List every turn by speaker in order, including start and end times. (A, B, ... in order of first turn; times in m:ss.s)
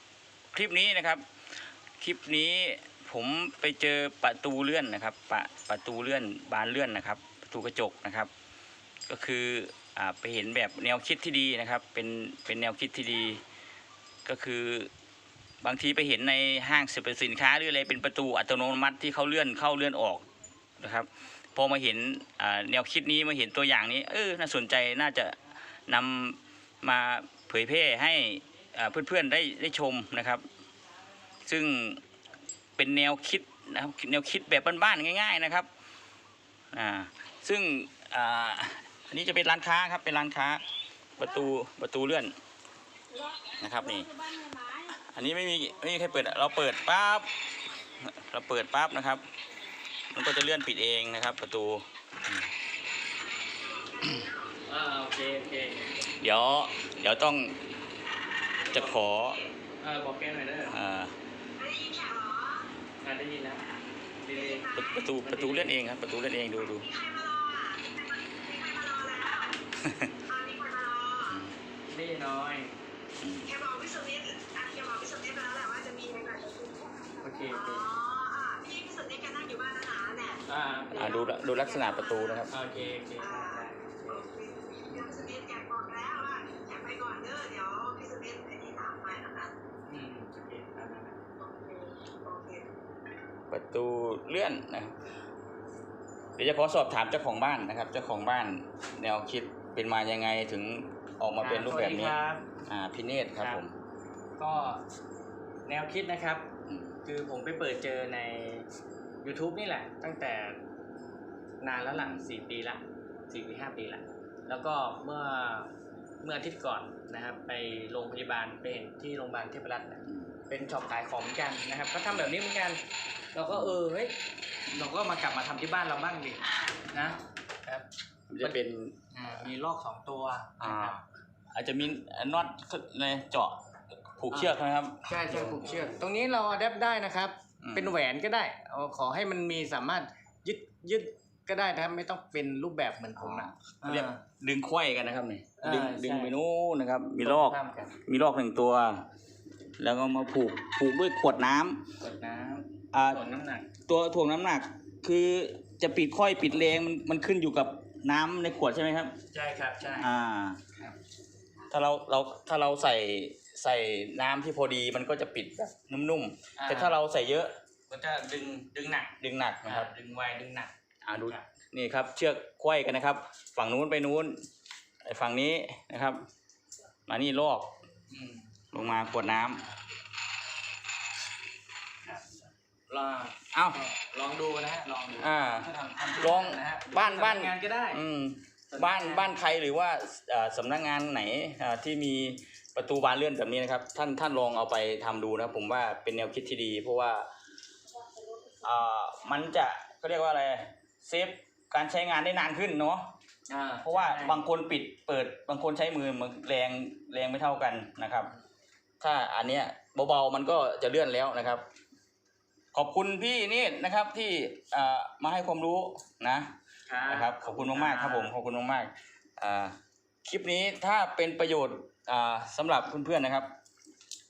0:00.5-0:01.2 A
0:02.0-0:08.3 A
0:09.1-0:13.4 A
0:14.2-0:14.9 A
0:15.6-0:20.3 A
0:20.8-0:30.4 A
0:31.4-0:32.0 A
0:32.8-0:35.7 A
0:36.7-0:40.6 A
0:41.2-0:42.3 A
0:43.6-0:47.3 A
0:47.9-0:49.2 A
0:50.1-0:52.4 A
0:53.1-0:54.6 B
0:54.6-0:55.9 C
0:56.2-0:57.6 A
0:58.6-0:59.5 B
0:58.7-0:59.4 A
0:59.8-1:00.8 C
1:00.6-1:01.1 A
1:01.6-1:02.7 B
1:03.0-1:03.7 C
1:04.2-1:05.7 C
1:04.3-1:05.0 B
1:04.7-1:06.9 A
1:06.7-1:09.6 B
1:09.8-1:10.1 A
1:10.2-1:11.4 B
1:11.2-1:11.5 A
1:11.9-1:12.7 C
1:13.2-1:13.5 A
1:13.4-1:17.0 B
1:17.2-1:17.9 C
1:17.5-1:22.5 B
1:20.5-1:21.2 C
1:20.9-1:22.6 A
1:22.5-1:24.3 C
1:23.2-1:29.5 B
1:29.9-1:31.2 C
1:31.4-1:32.7 B
1:33.5-1:34.9 A
1:36.4-1:43.7 A
1:41.4-1:42.4 C
1:43.4-1:43.6 C
1:44.4-1:44.8 C
1:45.6-1:46.5 C
1:46.7-1:46.9 A
1:47.0-1:48.7 C
1:49.2-1:50.6 C
1:51.6-1:55.7 C
1:51.9-1:52.3 A
1:56.2-2:02.8 C
2:03.3-2:04.1 C
2:04.7-2:07.8 C
2:08.3-2:08.9 A
2:09.1-2:11.0 C
2:10.6-2:11.0 A
2:11.5-2:15.8 A
2:14.3-2:24.2 C
2:17.6-2:17.9 A
2:23.2-2:29.0 A
2:25.6-2:26.3 C
2:27.2-2:27.9 C
2:29.8-2:31.8 A
2:32.0-2:33.7 C
2:32.9-2:33.2 A
2:33.8-2:39.2 A
2:39.3-2:40.1 C
2:39.9-2:40.6 A
2:41.7-2:47.5 A
2:46.6-2:46.9 C
2:47.9-2:50.7 C
2:49.2-2:49.9 A
2:51.0-2:54.4 A
2:55.0-2:56.2 A
2:57.1-2:57.7 A
2:58.1-2:58.5 C
2:58.7-2:59.6 A
3:02.0-3:08.0 C
3:03.5-3:03.8 A
3:05.2-3:17.3 A
3:08.7-3:09.3 C
3:18.6-3:23.1 A
3:23.5-3:24.4 C
3:23.8-3:28.3 A
3:29.0-3:31.6 A
3:32.7-3:36.5 A
3:36.9-3:38.3 C
3:37.0-3:43.5 A